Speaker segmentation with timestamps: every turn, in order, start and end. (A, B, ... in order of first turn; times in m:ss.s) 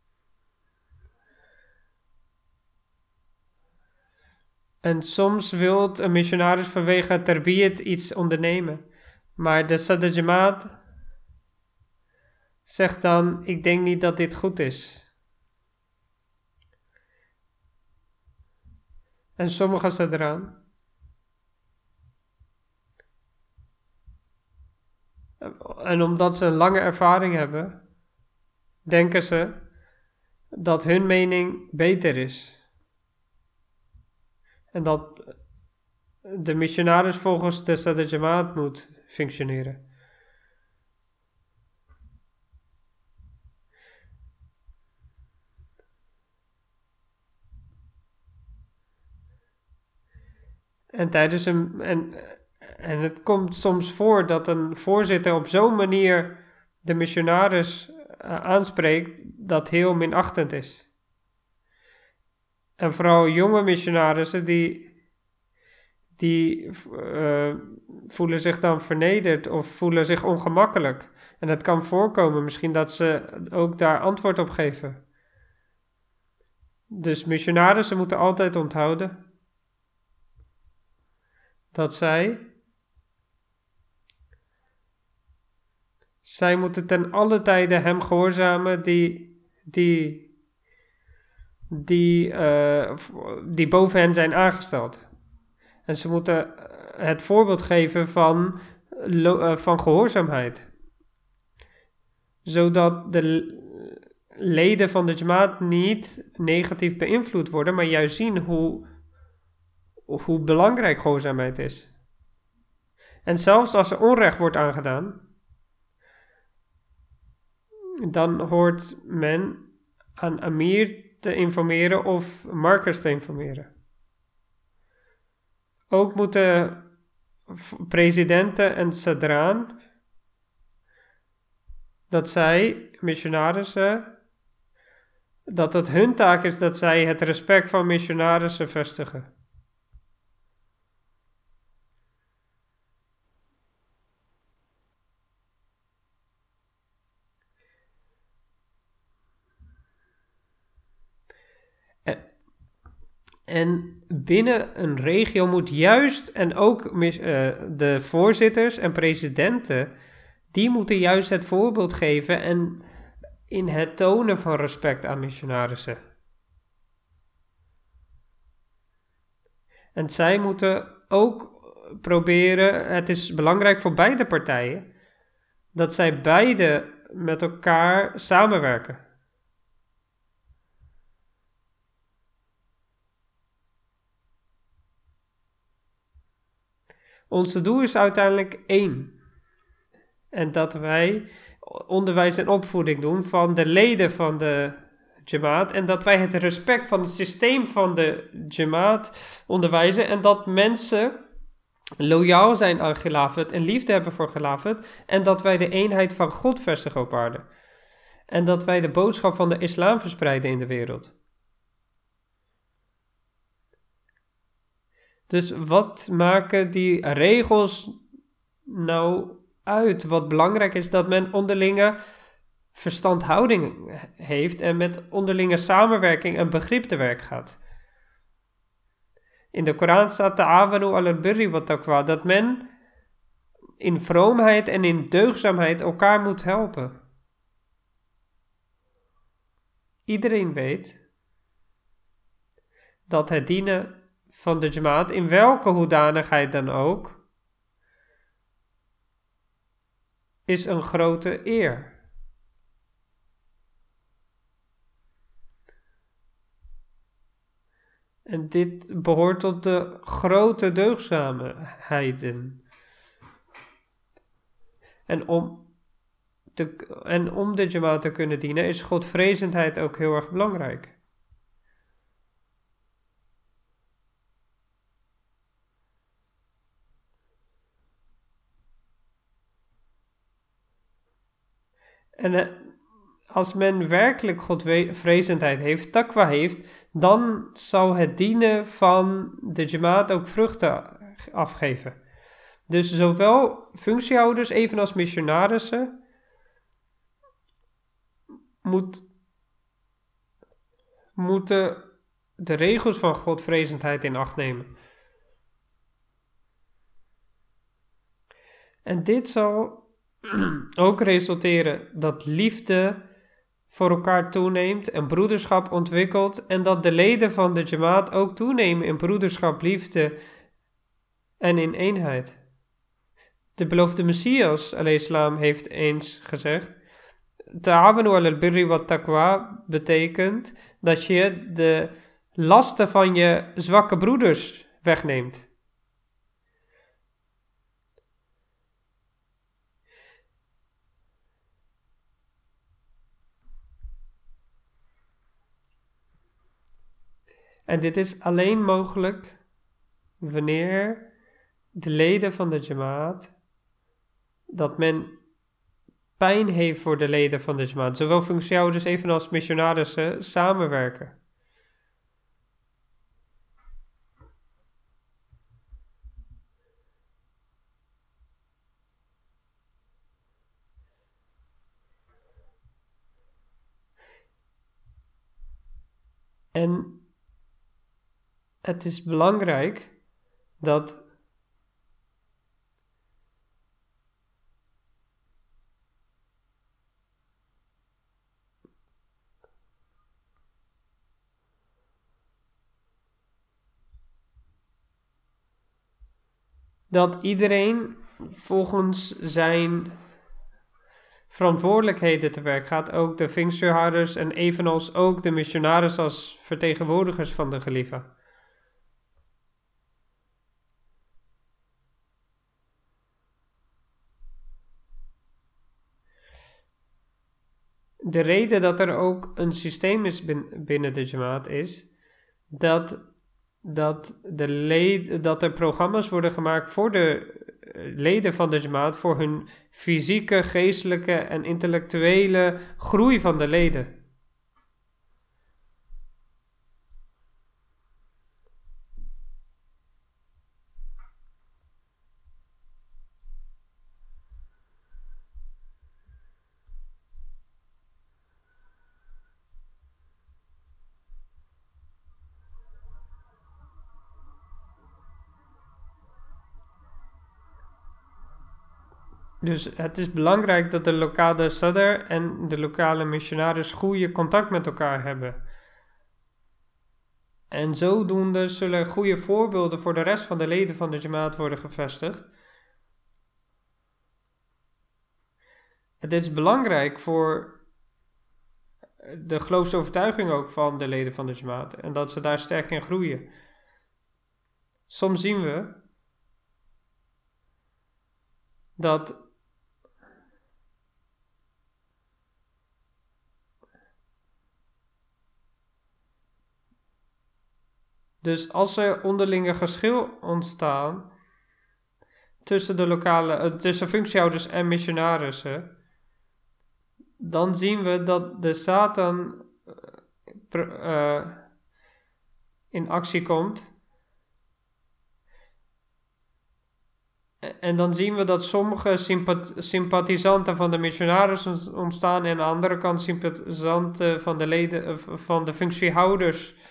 0:04.8-0:08.8 A
0:09.4-0:10.8 A
0:12.7-0:15.1 A
0:19.4-0:20.6 A
0:25.4-0:27.8 A
0:28.9-0:29.6 A
0:30.5-0:32.6 A
0:34.7-0:35.4 A
0:36.3-0:39.8 A
0:50.9-1:00.9 A
1:02.8-1:04.9 A
1:06.2-1:15.0 A
1:16.9-1:19.2 A
1:21.7-1:22.5 A
1:26.2-1:30.3 A
1:31.7-1:35.1 A
1:35.9-1:40.7 A
1:42.4-1:48.9 A
1:50.1-1:51.9 A
1:53.2-1:55.2 A
1:58.0-1:59.6 A
2:00.2-2:03.7 A
2:05.9-2:06.8 A
2:07.5-2:09.8 A
2:12.1-2:14.1 A
2:15.5-2:19.3 A
2:33.5-2:39.9 A
2:40.5-2:42.8 A
2:43.5-2:46.0 A
2:50.0-2:54.9 A
2:55.8-2:59.0 A
3:07.3-3:09.2 A
3:10.3-3:21.2 A
3:22.0-3:27.5 A
3:28.3-3:31.2 A
3:35.3-3:37.9 A
3:38.7-3:42.0 A
3:42.7-3:47.6 A
3:49.5-3:52.7 A
3:53.8-3:57.0 A
4:00.1-4:01.0 A
4:03.1-4:07.2 A
4:10.5-4:12.0 A
4:18.3-4:22.6 A
4:25.1-4:25.7 A
4:26.6-4:31.0 A
4:42.2-4:42.7 A
4:43.3-4:52.0 A
4:52.7-4:55.9 A
4:58.6-4:59.1 A
5:01.2-5:01.9 A
5:02.4-5:04.7 A
5:08.8-5:13.0 A
5:13.7-5:20.2 A
5:21.4-5:22.4 A
5:23.6-5:26.8 A
5:27.6-5:35.5 A
5:47.7-5:49.4 A
5:50.2-5:51.1 A
5:51.8-5:53.3 A
5:54.5-5:55.2 A
5:56.2-6:01.2 A
6:16.5-6:17.0 A
6:18.6-6:19.9 A
6:20.6-6:21.0 A
6:36.9-6:40.0 A
6:41.3-6:48.1 A
6:58.0-7:01.9 A
7:02.5-7:03.0 A
7:03.6-7:14.0 A
7:39.4-7:45.4 A
7:47.5-7:52.3 A
7:56.0-7:57.6 A
7:59.0-8:03.3 A
8:04.9-8:05.8 A
8:08.8-8:09.2 A
8:18.2-8:21.1 A
8:22.4-8:25.7 A
8:27.2-8:29.5 A
8:30.5-8:31.4 A
8:32.7-8:33.7 A
8:37.4-8:46.6 A